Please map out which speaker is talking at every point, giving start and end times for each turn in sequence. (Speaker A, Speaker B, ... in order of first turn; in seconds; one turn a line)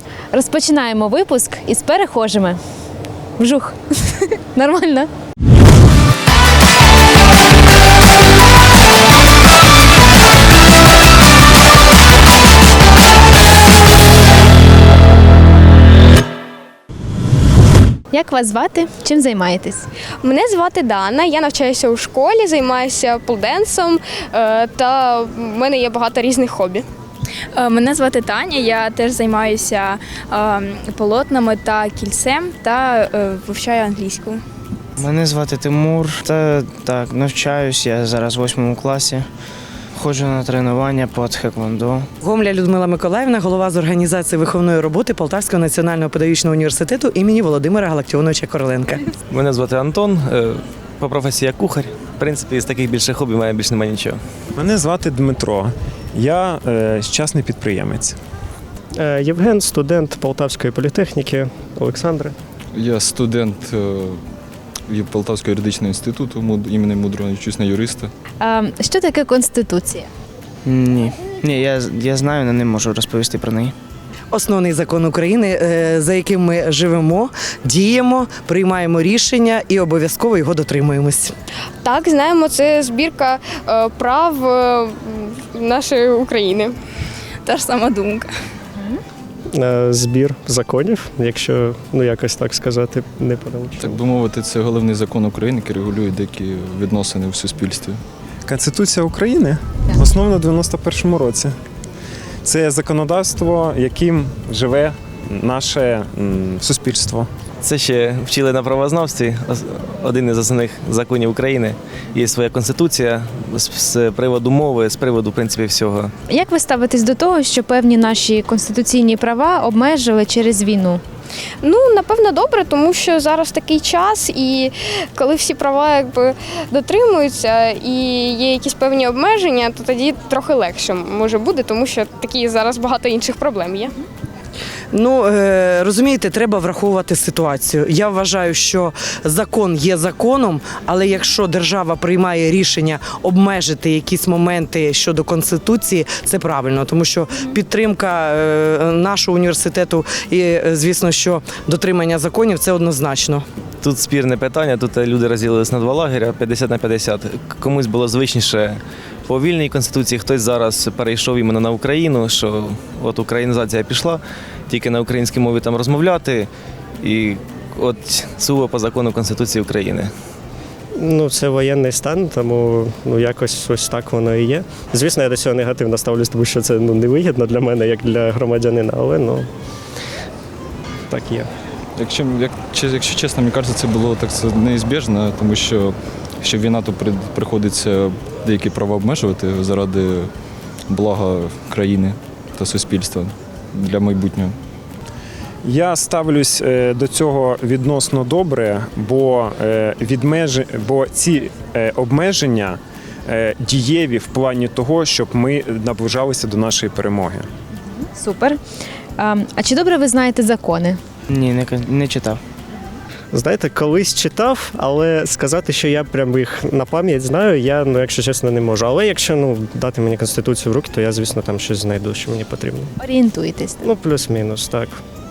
Speaker A: 0.3-2.6
Speaker A: 3.4-5.1
Speaker A: 18.1-19.9
Speaker B: 20.2-26.9
Speaker C: 27.6-34.4
Speaker D: 35.0-39.3
Speaker D: 40.0-42.1
Speaker E: 42.2-49.0
Speaker F: 49.3-54.2
Speaker G: 54.6-58.2
Speaker H: 59.0-62.4
Speaker I: 62.7-64.2
Speaker I: 64.9-68.1
Speaker A: 68.4-70.1
Speaker D: 70.7-73.8
Speaker E: 74.3-81.3
Speaker B: 81.8-86.8
Speaker C: 87.5-88.3
Speaker H: 89.5-94.0
Speaker I: 93.8-98.0
Speaker G: 98.5-101.5
Speaker G: 102.4-107.3
Speaker F: 107.6-116.1
Speaker A: 116.3-121.0
Speaker B: 121.6-133.9
Speaker E: 134.9-153.4
Speaker F: 153.8-166.5
Speaker F: 167.0-170.1
Speaker H: 171.0-179.5
Speaker H: 181.1-181.5
Speaker I: 182.0-190.3
Speaker I: 190.9-194.6
Speaker G: 195.6-207.5
Speaker A: 208.0-208.6
Speaker A: 209.2-211.0
Speaker D: 211.3-212.4
Speaker H: 213.3-222.9
Speaker A: 223.0-223.8
Speaker H: 223.8-225.0